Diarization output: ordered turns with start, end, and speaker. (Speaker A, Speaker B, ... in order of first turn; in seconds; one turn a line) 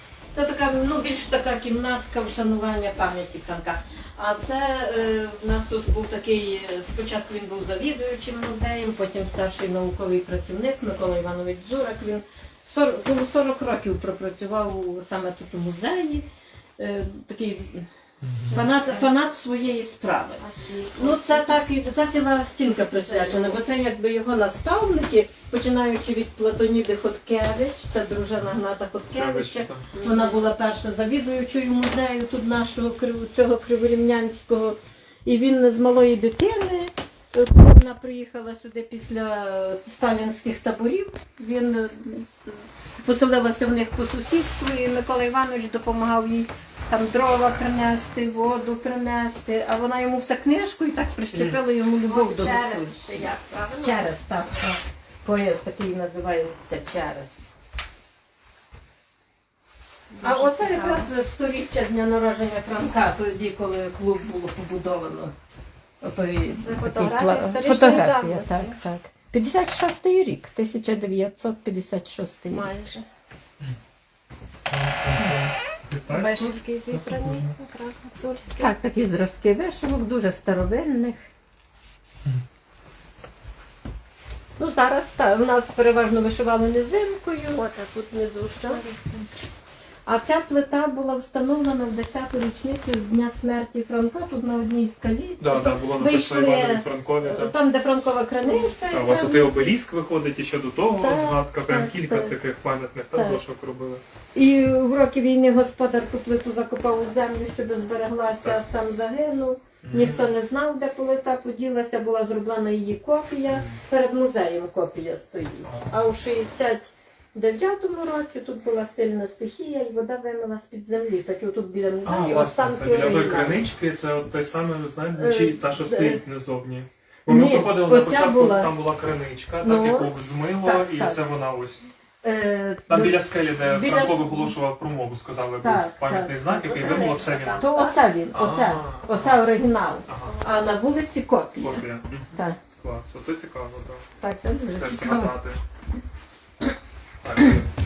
Speaker A: 0.3-16.3
Speaker A: 16.8-17.9
Speaker B: 18.2-18.7
Speaker C: 18.5-19.1
Speaker A: 18.5-20.4
Speaker C: 20.4-21.6
Speaker A: 21.0-53.2
Speaker C: 23.1-23.6
Speaker B: 29.1-29.9
Speaker C: 29.9-30.4
Speaker B: 51.3-51.6
Speaker C: 52.0-54.1
Speaker A: 53.8-57.5
Speaker C: 60.1-61.1
Speaker A: 60.2-65.3
Speaker A: 66.0-72.7
Speaker C: 66.6-68.8
Speaker C: 72.5-73.0
Speaker B: 74.7-77.5
Speaker C: 76.1-78.7
Speaker A: 78.6-81.3
Speaker A: 84.6-87.6
Speaker C: 87.5-89.3
Speaker A: 88.5-88.8
Speaker A: 90.1-99.7
Speaker B: 95.4-97.5
Speaker C: 98.5-99.2
Speaker B: 98.9-104.0
Speaker A: 100.9-102.4
Speaker A: 103.1-103.4
Speaker A: 104.3-123.6
Speaker B: 109.8-110.3
Speaker B: 113.5-113.8
Speaker B: 115.6-116.0
Speaker B: 122.0-131.9
Speaker A: 125.1-126.2
Speaker A: 127.3-128.8
Speaker A: 129.6-131.2
Speaker A: 132.2-134.6
Speaker B: 132.9-137.7
Speaker A: 135.6-137.1
Speaker C: 136.5-138.0
Speaker A: 137.6-141.8
Speaker B: 138.3-139.4
Speaker B: 140.1-140.4
Speaker C: 140.2-140.8
Speaker B: 141.6-144.1
Speaker A: 142.3-142.6
Speaker A: 144.2-145.4
Speaker B: 144.8-145.6
Speaker B: 147.2-147.7